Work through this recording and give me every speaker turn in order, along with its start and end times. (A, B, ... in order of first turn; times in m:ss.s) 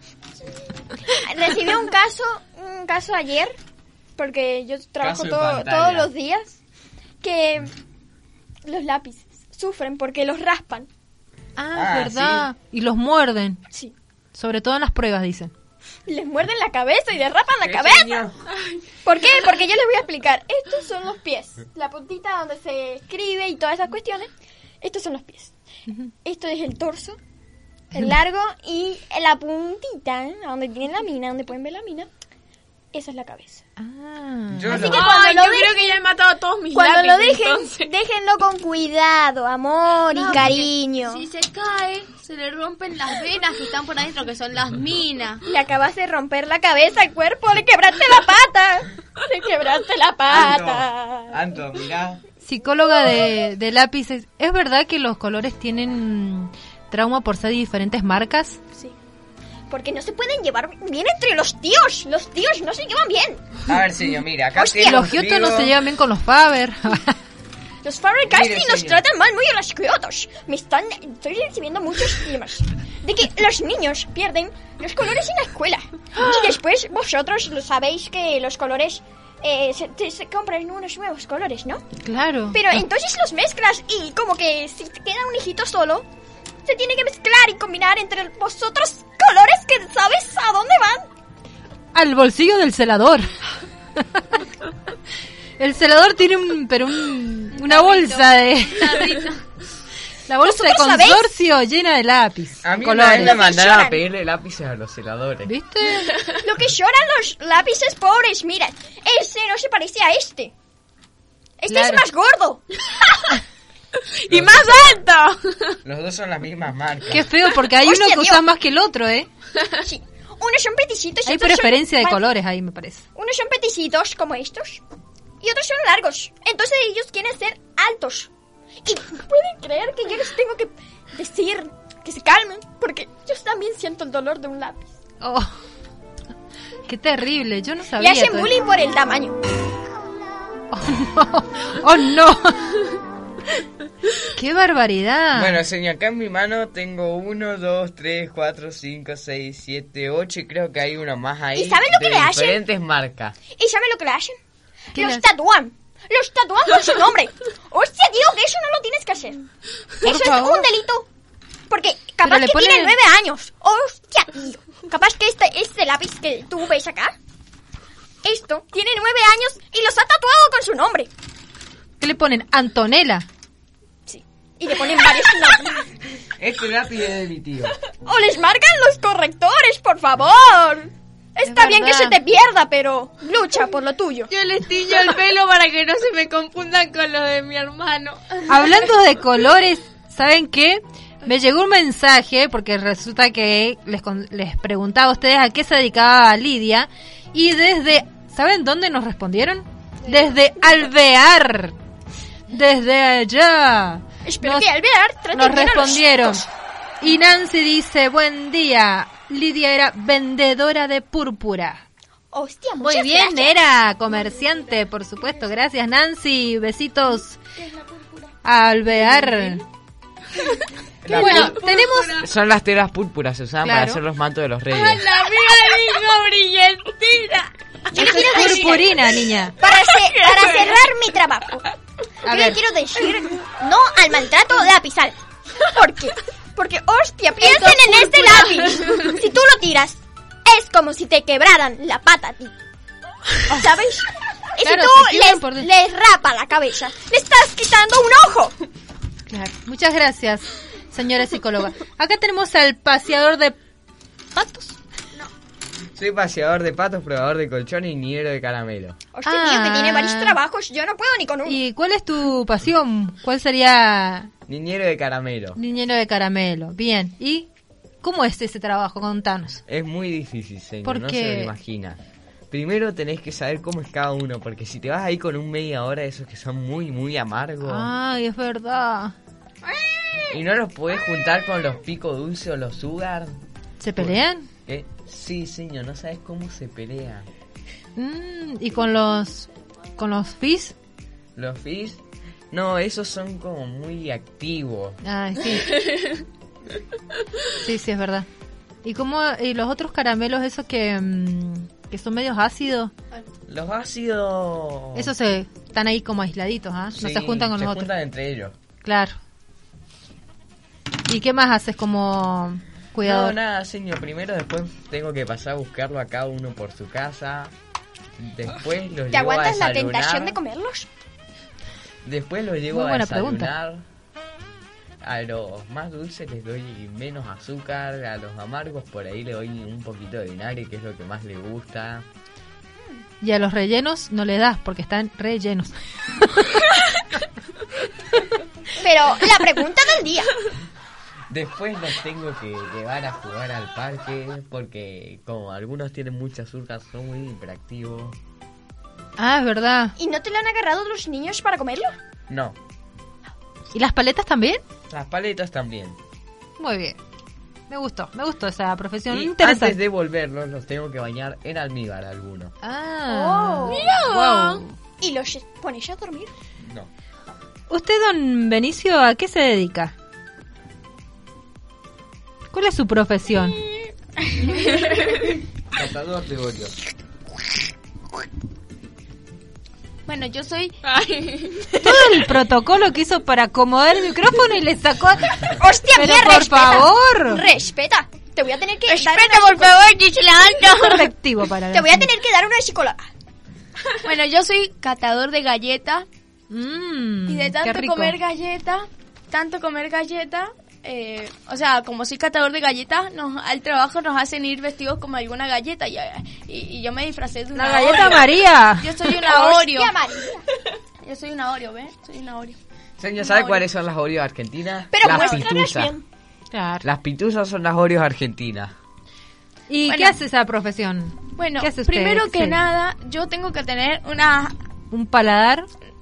0:01.1-0:03.6 A
0:04.2-0:06.6 A
0:05.0-0:06.1 B
0:07.2-0:07.7 A
0:08.6-0:10.9 A
0:11.6-0:13.6 C
0:11.7-0:12.4 B
0:14.3-0:15.5 C
0:16.1-0:18.2 A
0:17.6-0:18.4 B
0:19.0-0:24.3 A
0:24.8-0:25.5 A
0:26.2-0:27.2 A
0:27.9-0:32.1 A
0:32.9-0:33.6 A
0:33.8-0:34.8 C
0:34.5-0:35.1 B
0:34.7-0:36.0 A
0:34.8-0:37.9 D
0:36.7-0:41.2 A
0:40.1-0:45.4 E
0:40.3-0:40.6 D
0:45.4-0:51.4 A
0:50.3-0:52.2 B
0:52.4-0:58.6 C
0:59.7-1:03.6 A
1:03.7-1:05.7 B
1:04.6-1:05.1 A
1:04.8-1:07.2 C
1:07.8-1:21.8 A
1:08.2-1:09.0 B
1:22.0-1:22.8 C
1:22.5-1:26.1 A
1:26.6-1:31.0 A
1:31.9-1:33.3 C
1:34.1-1:34.4 C
1:35.6-1:39.2 C
1:37.7-1:38.1 E
1:40.3-1:43.4 C
1:40.4-1:41.3 A
1:42.6-1:45.5 B
1:43.1-1:44.0 A
1:45.4-1:46.2 C
1:46.4-1:50.5 A
1:51.6-1:52.9 A
1:51.7-1:52.0 C
1:54.2-1:55.8 D
1:54.3-1:55.0 B
1:55.8-1:57.3 B
1:57.1-1:59.3 C
1:57.7-1:58.4 A
1:59.8-2:02.2 A
2:01.2-2:03.0 C
2:03.1-2:04.8 A
2:05.4-2:08.3 A
2:08.8-2:14.9 A
2:15.2-2:15.5 C
2:16.9-2:18.5 C
2:18.0-2:19.4 A
2:20.7-2:22.7 C
2:24.3-2:25.6 C
2:25.3-2:33.4 B
2:31.5-2:32.6 A
2:33.5-2:34.4 A
2:34.9-2:35.2 C
2:34.9-2:39.4 A
2:40.0-2:41.1 A
2:40.0-2:40.7 C
2:41.7-2:47.1 A
2:42.2-2:43.0 C
2:48.2-2:51.1 A
2:52.0-2:53.2 C
2:54.1-2:55.9 A
2:56.4-2:57.8 B
2:58.0-3:04.3 A
3:01.4-3:02.2 C
3:04.3-3:08.2 D
3:08.5-3:21.7 C
3:22.5-3:24.7 C
3:24.2-3:26.5 A
3:25.3-3:26.4 C
3:27.0-3:31.8 C
3:32.3-3:33.6 A
3:32.8-3:37.4 C
3:38.4-3:39.6 C
3:41.0-3:41.6 B
3:41.1-3:42.2 C
3:41.1-3:42.1 D
3:42.2-3:45.0 B
3:43.6-3:44.0 C
3:44.8-3:47.2 E
3:45.1-3:47.4 D
3:47.9-3:48.9 A
3:48.0-3:49.6 C
3:49.6-3:51.7 A
3:52.2-3:52.6 C
3:52.2-4:02.5 A
3:57.6-3:58.9 D
4:03.5-4:08.6 A
4:04.6-4:05.7 C
4:09.3-4:13.6 C
4:14.3-4:14.8 C
4:16.0-4:19.0 B
4:19.1-4:21.6 A
4:19.2-4:20.4 C
4:21.4-4:24.3 C
4:24.5-4:25.6 B
4:25.6-4:27.5 C
4:28.0-4:29.6 C
4:29.7-4:32.0 B
4:30.8-4:31.5 C
4:32.5-4:37.9 B
4:37.6-4:39.1 C
4:40.3-4:43.4 B
4:43.8-4:44.5 C
4:44.0-4:47.3 B
4:48.0-4:50.7 C
4:51.4-4:55.0 B
4:55.0-4:55.8 C
4:57.6-4:58.3 C
4:58.8-5:02.9 C
5:03.5-5:05.1 B
5:04.9-5:07.9 C
5:07.0-5:08.5 B
5:08.8-5:09.2 C
5:11.1-5:13.4 C
5:13.0-5:17.5 B
5:18.2-5:20.4 B
5:19.1-5:20.9 A
5:22.0-5:23.8 B
5:22.7-5:23.5 C
5:25.0-5:32.0 B
5:33.2-5:36.6 C
5:38.8-5:40.3 A
5:41.3-5:48.2 B
5:49.2-5:49.9 C
5:50.0-5:51.9 A
5:52.3-5:52.6 B
5:53.7-5:54.6 C
5:54.9-5:56.0 B
5:56.6-5:57.0 C
5:57.7-5:59.8 C
5:59.1-6:02.5 B
6:02.6-6:04.7 C
6:03.1-6:03.8 A
6:03.8-6:04.4 E
6:03.9-6:04.3 D
6:05.0-6:06.3 A
6:06.6-6:06.9 B
6:07.7-6:09.9 C
6:12.5-6:13.6 C
6:15.7-6:16.8 B
6:20.0-6:21.6 E
6:21.8-6:25.3 C
6:25.6-6:29.8 A
6:25.9-6:27.4 C
6:28.9-6:29.9 E
6:29.0-6:30.7 D
6:30.8-6:32.1 C
6:31.7-6:33.1 A
6:34.0-6:36.1 E
6:36.5-6:38.2 C
6:37.3-6:49.9 E
6:47.5-6:49.1 C
6:49.2-6:50.4 A
6:51.0-6:52.6 E
6:53.0-6:55.9 B
6:53.2-6:53.6 E
6:54.9-6:56.0 A
6:55.1-6:55.4 E
6:56.5-6:56.8 C
6:56.8-6:58.7 B
6:59.7-7:02.6 C
6:59.9-7:00.2 E
7:01.4-7:04.6 E
7:04.9-7:05.7 C